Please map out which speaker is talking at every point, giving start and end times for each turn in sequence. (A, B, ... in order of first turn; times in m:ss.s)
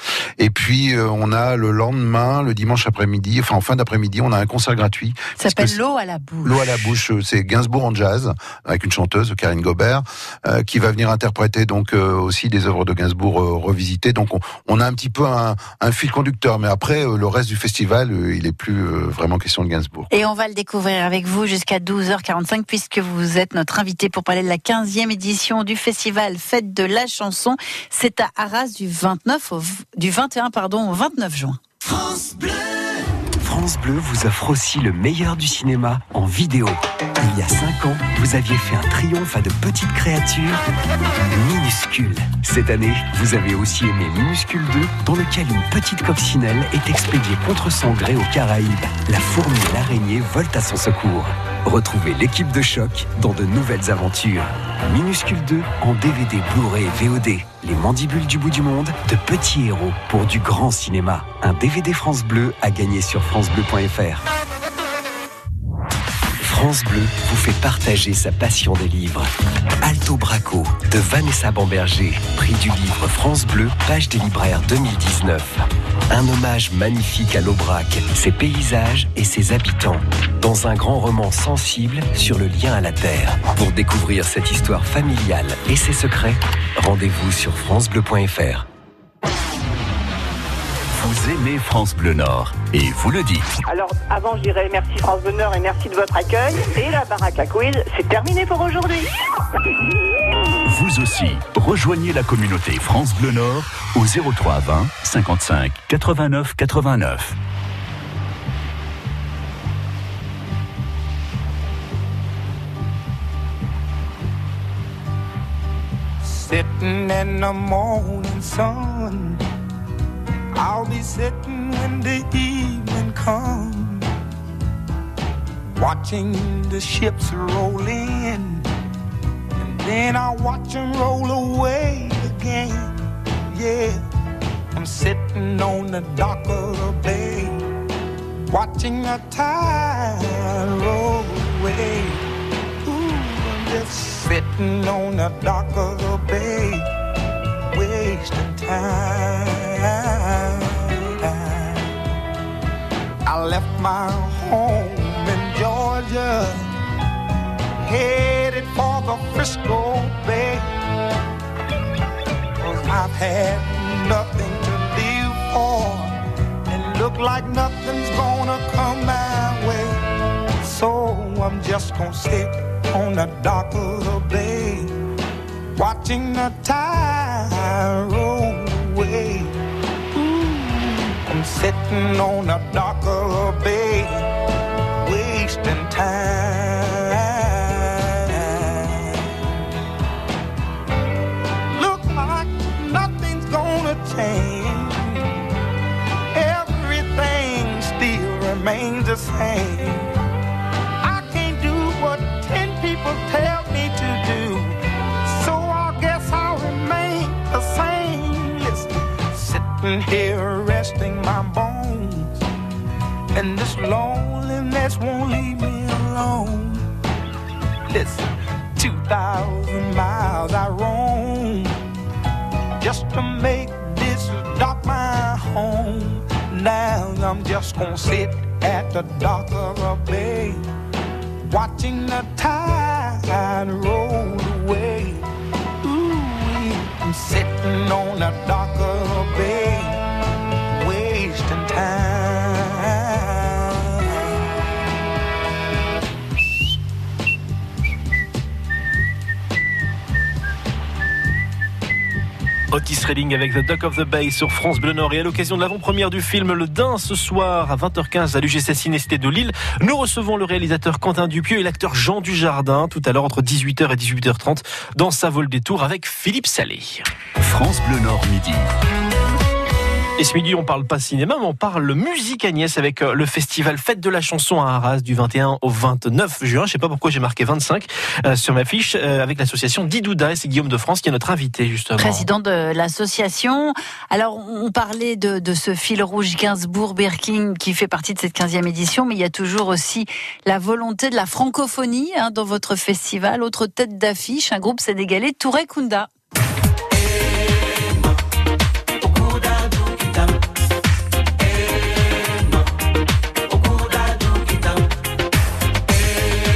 0:00.4-0:05.8 A
0:05.4-0:06.6 B
0:06.4-0:20.1 A
0:20.1-0:31.6 B
0:33.4-0:40.6 C
0:41.3-1:04.2 C
1:06.4-1:09.3 C
1:09.8-1:28.6 C
1:30.9-1:33.5 D
1:33.7-1:39.1 E
1:40.6-1:47.4 D
1:56.2-1:59.4 F
2:00.5-2:04.1 F
2:05.7-2:08.6 F
2:09.6-2:12.9 F
2:13.5-2:14.0 F
2:14.7-2:17.6 F
2:18.5-2:22.2 F
2:22.8-2:26.8 F
2:27.7-2:32.0 F
2:33.2-2:36.6 F
2:37.8-2:40.7 F
2:42.6-2:46.2 F
2:46.7-2:50.0 F
2:50.6-2:54.9 F
2:55.8-2:59.6 F
3:00.1-3:04.3 F
3:05.0-3:09.4 F
3:11.8-3:15.4 F
3:16.3-3:20.1 F
3:21.0-3:32.4 F
3:33.3-3:36.9 F
3:37.9-3:38.2 F
3:38.8-3:41.7 F
3:42.8-3:50.6 F
3:51.5-3:55.3 F
3:55.8-4:00.0 F
4:00.7-4:04.3 F
4:12.7-4:27.0 G
4:27.4-4:28.7 D
4:30.2-4:42.3 G
4:42.0-4:56.1 B